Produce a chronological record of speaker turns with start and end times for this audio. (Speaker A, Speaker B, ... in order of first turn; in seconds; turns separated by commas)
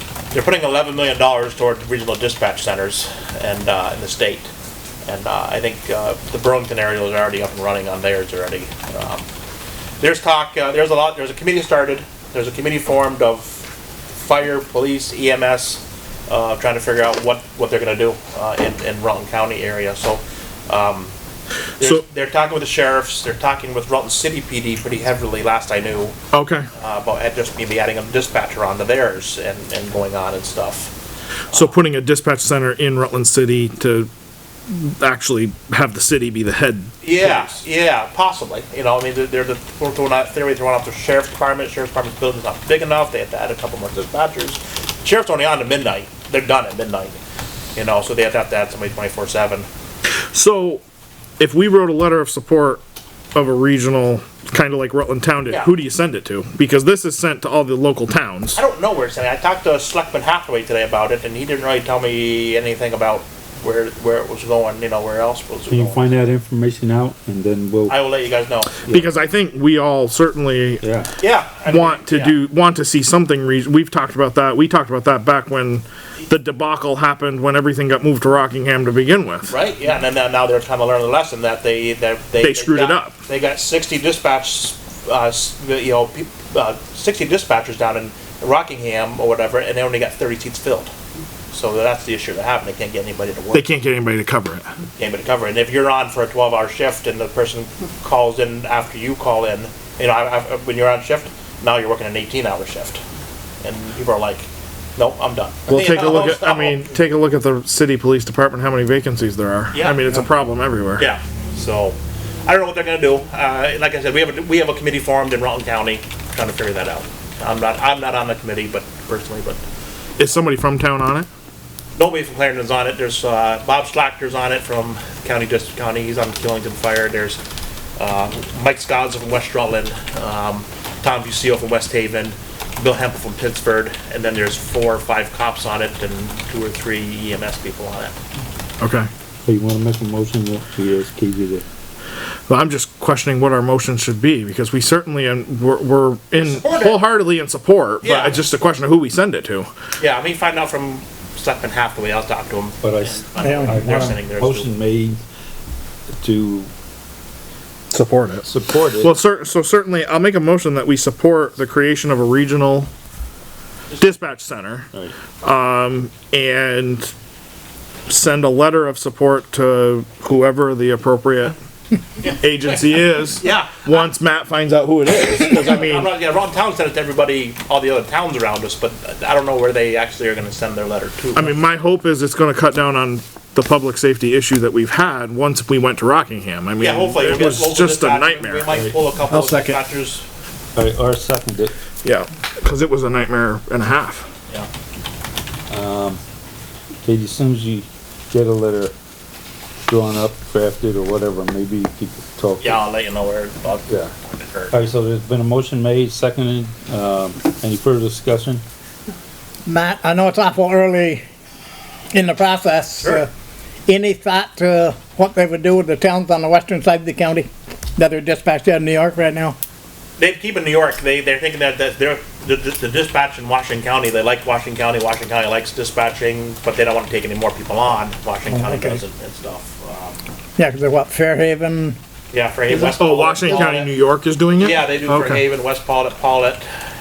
Speaker A: 0.3-4.5, Speaker A: 5.1-9.3, Speaker A: 10.0-21.1, Speaker A: 21.8-26.1, Speaker B: 26.3-26.7, Speaker A: 26.7-30.9, Speaker B: 31.5-34.1, Speaker B: 34.7-37.6, Speaker A: 37.0-47.2, Speaker A: 47.7-49.7, Speaker B: 50.3-50.8, Speaker B: 51.4-52.8, Speaker B: 53.3-58.6, Speaker A: 58.5-66.1, Speaker C: 65.7-68.0, Speaker A: 67.9-68.8, Speaker B: 68.9-70.8, Speaker C: 70.8-71.1, Speaker A: 71.2-72.3, Speaker B: 71.6-79.5, Speaker A: 79.5-90.9, Speaker B: 82.4-83.2, Speaker A: 91.5-93.7, Speaker B: 93.5-94.7, Speaker A: 95.0-103.0, Speaker A: 103.6-106.9, Speaker B: 105.7-111.1, Speaker A: 109.7-110.2, Speaker A: 111.0-119.6, Speaker B: 120.2-121.3, Speaker A: 122.0-127.4, Speaker A: 128.0-138.2, Speaker B: 138.8-139.1, Speaker C: 139.4-141.7, Speaker B: 142.5-149.7, Speaker A: 146.4-147.0, Speaker A: 148.0-148.4, Speaker A: 150.0-154.7, Speaker C: 152.8-155.2, Speaker D: 153.4-154.1, Speaker C: 156.2-156.7, Speaker B: 157.9-162.9, Speaker C: 158.4-159.2, Speaker B: 164.0-164.9, Speaker B: 165.4-167.1, Speaker B: 168.1-171.6, Speaker B: 172.3-176.1, Speaker A: 173.4-174.1, Speaker A: 175.4-181.6, Speaker B: 181.3-189.8, Speaker A: 186.8-190.2, Speaker C: 188.7-189.0, Speaker C: 190.8-191.7, Speaker B: 192.0-194.3, Speaker C: 195.7-196.2, Speaker C: 197.0-198.9, Speaker C: 199.9-202.8, Speaker A: 202.6-204.8, Speaker C: 204.7-208.6, Speaker D: 209.7-211.2, Speaker D: 212.1-213.3, Speaker D: 213.9-219.6, Speaker A: 220.2-230.2, Speaker D: 228.5-229.0, Speaker D: 230.6-232.0, Speaker A: 232.3-233.9, Speaker B: 232.8-235.4, Speaker A: 234.6-236.7